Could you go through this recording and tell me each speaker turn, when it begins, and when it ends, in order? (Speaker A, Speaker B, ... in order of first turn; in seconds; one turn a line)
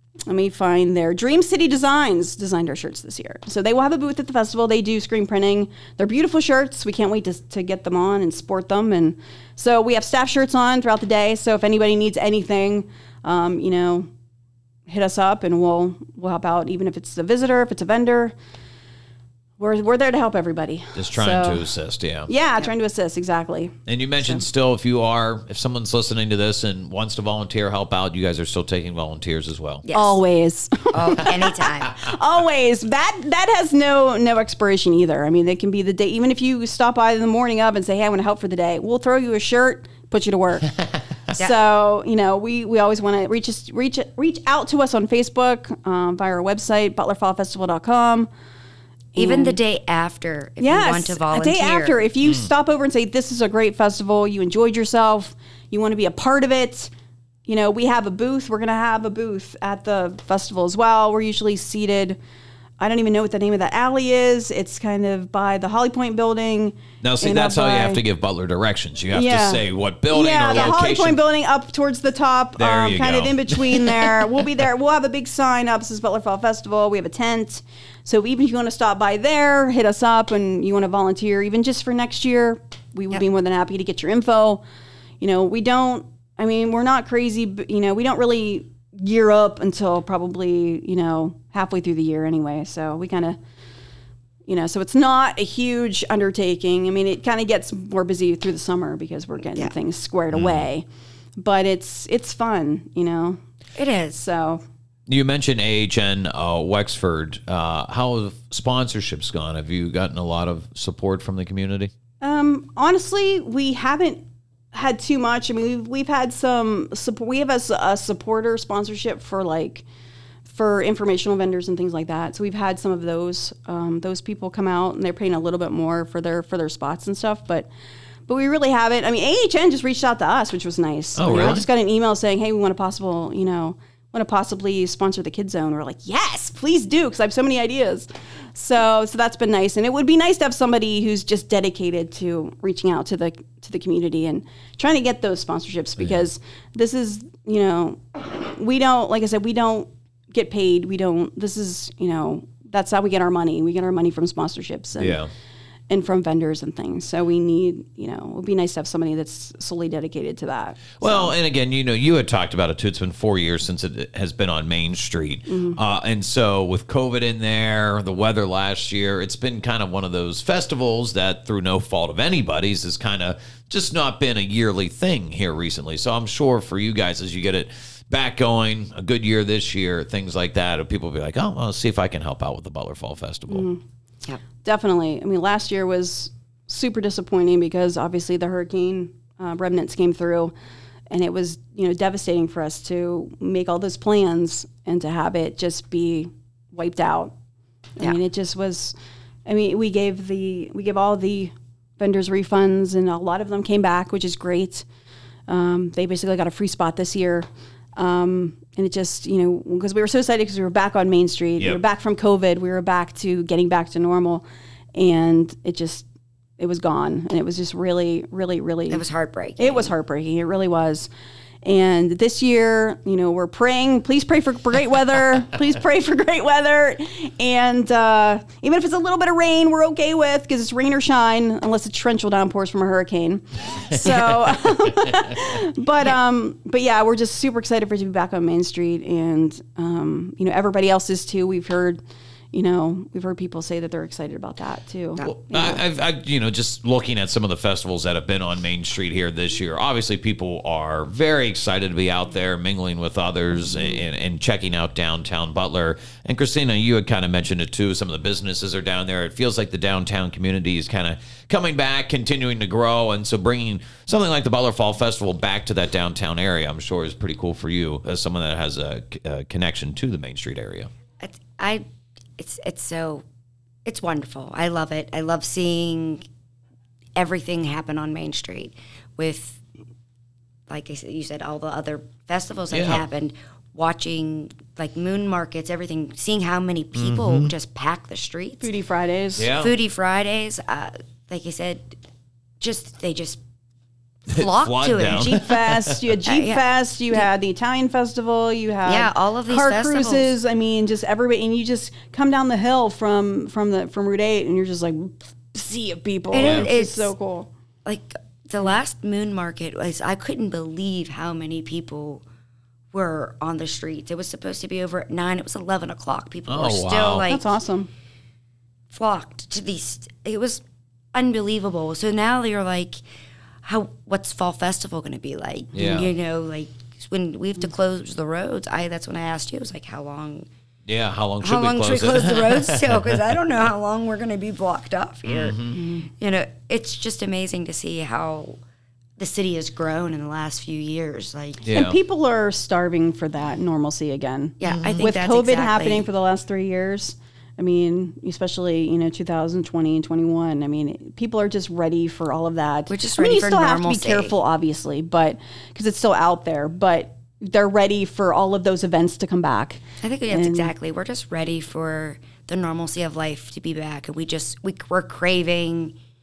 Speaker A: 0.3-14.1
Speaker A: 14.9-18.3
Speaker A: 19.6-21.6
Speaker B: 20.9-22.3
Speaker A: 22.3-24.4
Speaker B: 23.9-29.8
Speaker C: 29.8-30.2
Speaker A: 29.9-40.7
Speaker C: 30.9-32.1
Speaker A: 41.3-48.3
Speaker A: 49.1-49.6
Speaker C: 49.1-52.0
Speaker A: 50.6-56.9
Speaker A: 57.5-62.2
Speaker A: 62.8-68.0
Speaker B: 67.0-71.2
Speaker A: 69.1-84.6
Speaker B: 72.6-74.4
Speaker A: 85.2-93.4
Speaker A: 94.5-100.8
Speaker B: 100.3-100.7
Speaker A: 101.4-103.4
Speaker C: 103.8-104.2
Speaker A: 104.1-104.6
Speaker B: 105.1-111.9
Speaker A: 112.2-119.8
Speaker A: 120.5-127.7
Speaker A: 128.3-155.2
Speaker B: 131.2-131.7
Speaker B: 155.0-155.3
Speaker A: 155.9-161.3
Speaker B: 161.0-183.7
Speaker A: 165.5-165.8
Speaker A: 183.5-183.8
Speaker A: 184.6-190.5
Speaker A: 191.1-197.3
Speaker A: 198.0-204.8
Speaker A: 205.5-216.0
Speaker A: 216.6-219.1
Speaker C: 218.9-219.9
Speaker A: 219.6-221.1
Speaker A: 221.6-242.0
Speaker A: 242.5-245.8
Speaker B: 245.2-270.9
Speaker C: 271.2-271.8
Speaker C: 272.4-273.2
Speaker C: 273.9-276.2
Speaker C: 277.1-279.6
Speaker C: 280.7-288.7
Speaker B: 282.7-283.0
Speaker B: 286.9-287.5
Speaker A: 288.6-289.5
Speaker B: 289.4-289.7
Speaker C: 289.5-291.9
Speaker C: 292.6-293.4
Speaker C: 294.3-295.5
Speaker B: 294.3-296.0
Speaker A: 295.0-307.5
Speaker C: 296.2-297.2
Speaker C: 298.8-300.3
Speaker C: 306.3-307.1
Speaker B: 306.4-306.7
Speaker C: 307.9-312.2
Speaker C: 312.9-317.6
Speaker B: 316.5-317.2
Speaker A: 317.3-317.9
Speaker C: 318.9-320.6
Speaker C: 321.1-323.0
Speaker C: 323.6-330.5
Speaker B: 325.7-326.1
Speaker B: 330.9-333.2
Speaker C: 331.4-338.6
Speaker B: 335.3-335.8
Speaker C: 339.2-341.6
Speaker B: 341.6-342.0
Speaker A: 341.7-360.7
Speaker C: 344.6-346.1
Speaker B: 344.7-345.0
Speaker C: 352.9-354.3
Speaker C: 360.0-365.9